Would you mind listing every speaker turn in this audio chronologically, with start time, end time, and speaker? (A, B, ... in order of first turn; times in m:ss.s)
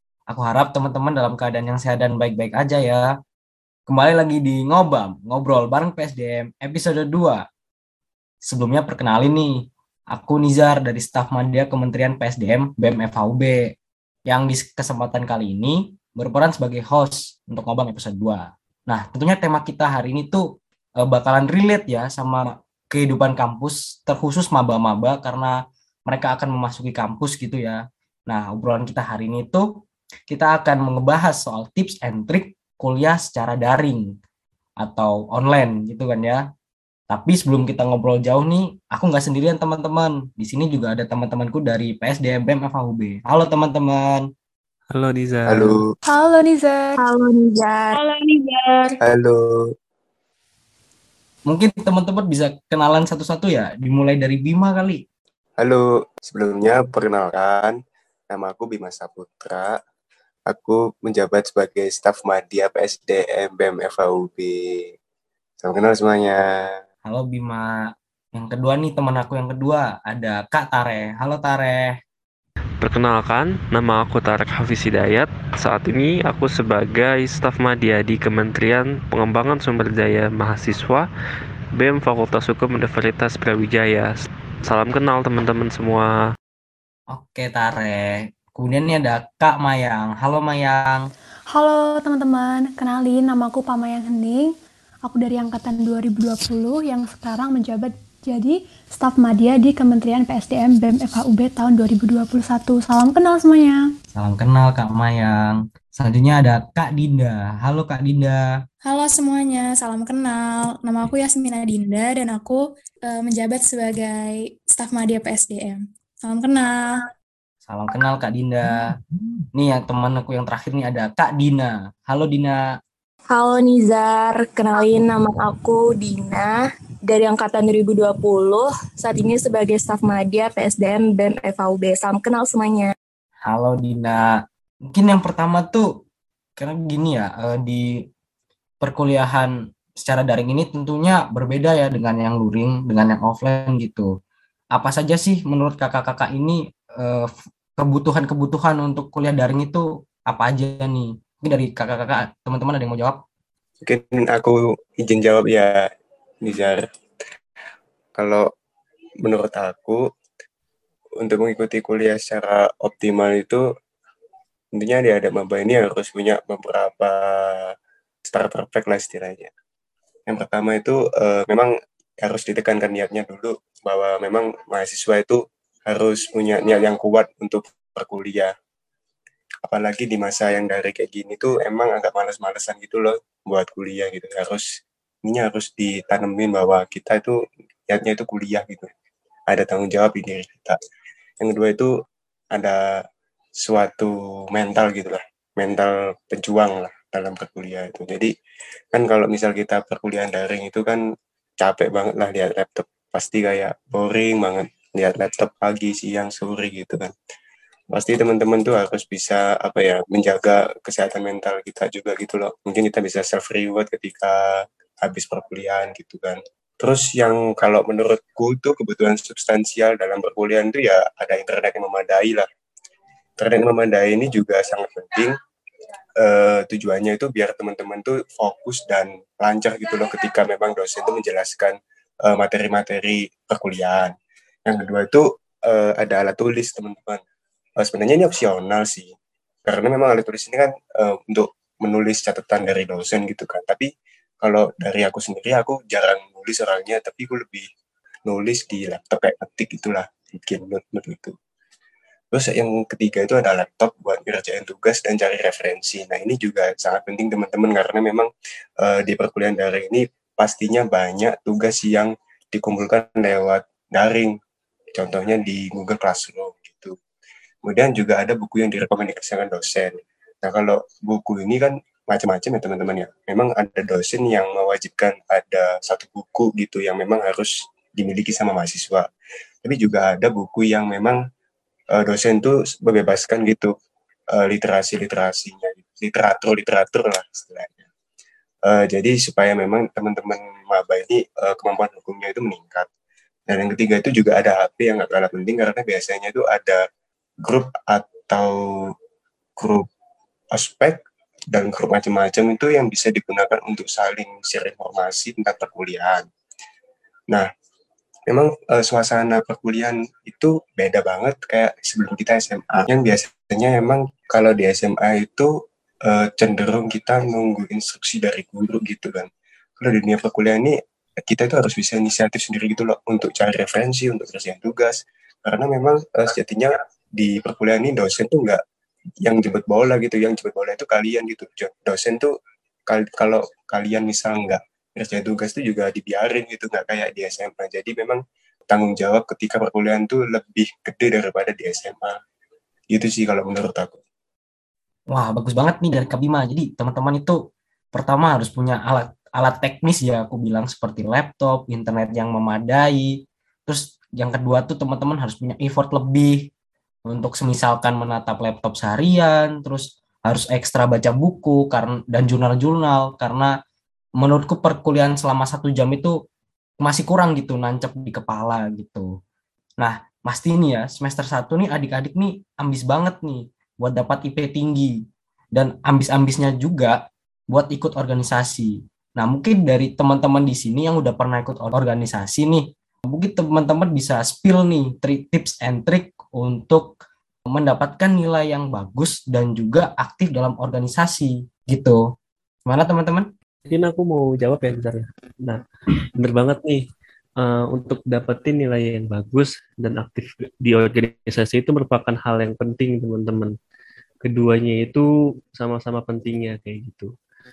0:00.3-0:03.1 A
0:03.9-0:07.4 A
0:08.4-0:13.8 A
0:14.3-0:20.4 A
0:21.0-0:25.6 A
0:26.1-0:29.7 A
0:30.3-0:34.2 A
0:34.8-0:36.4 A
0:37.1-0:44.3 A
0:44.9-0:45.8 B
0:45.5-0:45.9 C
0:46.1-0:47.0 D
0:47.0-0:48.0 E
0:47.9-0:49.0 F
0:49.0-0:49.7 C
0:51.5-0:55.0 A
0:55.6-0:57.8 C
0:58.3-0:59.8 C
1:00.5-1:04.8 C
1:05.6-1:06.8 C
1:07.0-1:07.7 A
1:08.4-1:12.0 A
1:12.8-1:21.1 B
1:21.8-1:26.1 B
1:27.1-1:31.1 A
1:31.5-1:34.5 D
1:35.0-1:43.8 D
1:44.2-1:48.5 A
1:48.8-1:57.1 F
1:57.6-1:59.0 A
1:59.6-2:02.6 A
2:03.3-2:06.5 E
2:07.1-2:12.9 E
2:13.5-2:15.9 A
2:16.6-2:17.9 A
2:18.8-2:24.1 A
2:24.7-2:33.2 A
2:33.8-2:35.9 C
2:36.4-2:36.9 C
2:38.2-2:38.5 C
2:39.2-2:40.0 C
2:41.2-2:43.6 C
2:44.8-2:47.8 C
2:48.3-2:49.5 C
2:50.3-2:58.5 C
2:59.6-3:04.7 C
3:05.2-3:08.9 C
3:09.5-3:10.8 C
3:11.4-3:11.9 C
3:12.5-3:13.0 C
3:13.6-3:18.3 C
3:18.9-3:21.0 C
3:21.6-3:27.1 C
3:27.9-3:42.5 C
3:43.4-3:45.4 C
3:46.2-3:54.2 C
3:54.7-3:57.2 C
3:57.8-3:59.1 C
3:59.7-4:03.9 C
4:04.4-4:07.6 C
4:08.3-4:11.4 C
4:12.3-4:18.3 C
4:18.8-4:24.4 C
4:25.0-4:27.0 C
4:27.6-4:39.1 C
4:39.6-4:41.2 C
4:41.9-4:43.7 C
4:44.3-4:47.9 C
4:48.7-4:52.9 C
4:53.5-4:56.8 C
4:57.4-4:58.9 C
4:59.6-4:59.9 C
5:00.5-5:01.0 C
5:01.5-5:06.3 C
5:08.3-5:15.5 C
5:16.0-5:19.3 C
5:19.8-5:28.6 C
5:29.2-5:32.3 C
5:32.9-5:42.2 C
5:42.9-5:44.0 C
5:45.1-5:47.4 A
5:47.9-5:56.5 A
5:57.1-6:03.5 A
6:04.2-6:06.2 A
6:06.8-6:09.1 A
6:09.8-6:15.0 A
6:15.5-6:27.0 A
6:27.5-6:32.1 A
6:32.6-6:33.3 A
6:33.7-6:35.6 B
6:36.2-6:36.9 B
6:37.4-6:43.6 B
6:44.2-6:47.1 B